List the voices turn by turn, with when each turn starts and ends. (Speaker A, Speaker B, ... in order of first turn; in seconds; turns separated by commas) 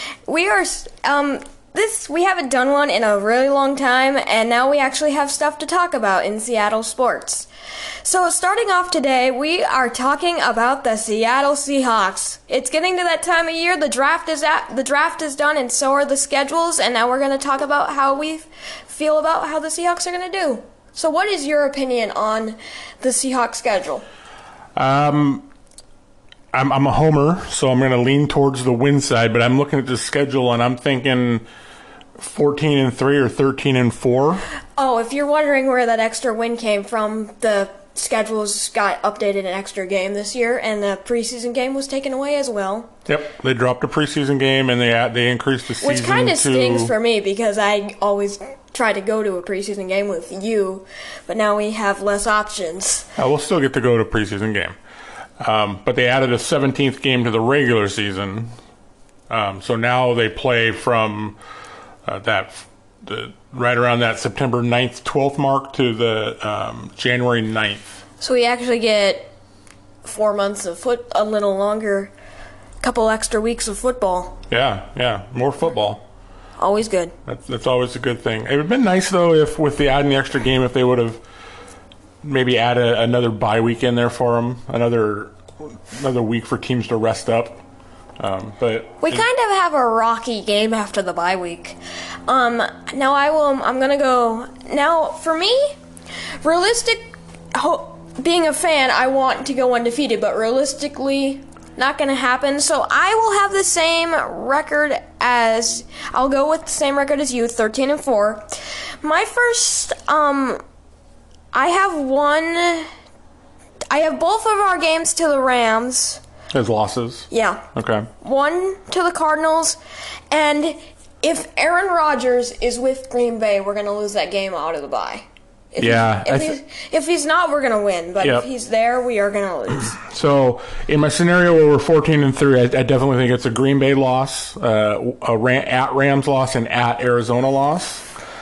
Speaker A: 0.2-7.5, Speaker A: 8.0-24.0, Speaker B: 24.8-25.4, Speaker B: 26.5-31.4, Speaker B: 32.2-34.4, Speaker A: 34.8-42.9, Speaker B: 43.0-46.9, Speaker A: 45.8-53.1, Speaker B: 53.1-54.8, Speaker B: 55.4-58.5, Speaker B: 59.3-61.4, Speaker B: 62.0-68.0, Speaker A: 68.2-69.3, Speaker A: 70.0-72.1, Speaker A: 72.8-74.4, Speaker B: 74.5-76.0, Speaker A: 76.6-77.1, Speaker B: 77.2-81.2, Speaker B: 82.2-87.6, Speaker B: 88.2-89.2, Speaker A: 89.0-91.8, Speaker A: 92.3-95.8, Speaker A: 96.4-110.6, Speaker A: 111.5-112.9, Speaker A: 113.9-116.2, Speaker B: 116.5-118.1, Speaker A: 117.3-117.7, Speaker A: 118.2-119.8, Speaker A: 120.3-130.0, Speaker B: 125.8-126.6, Speaker B: 128.2-128.4, Speaker B: 129.9-138.1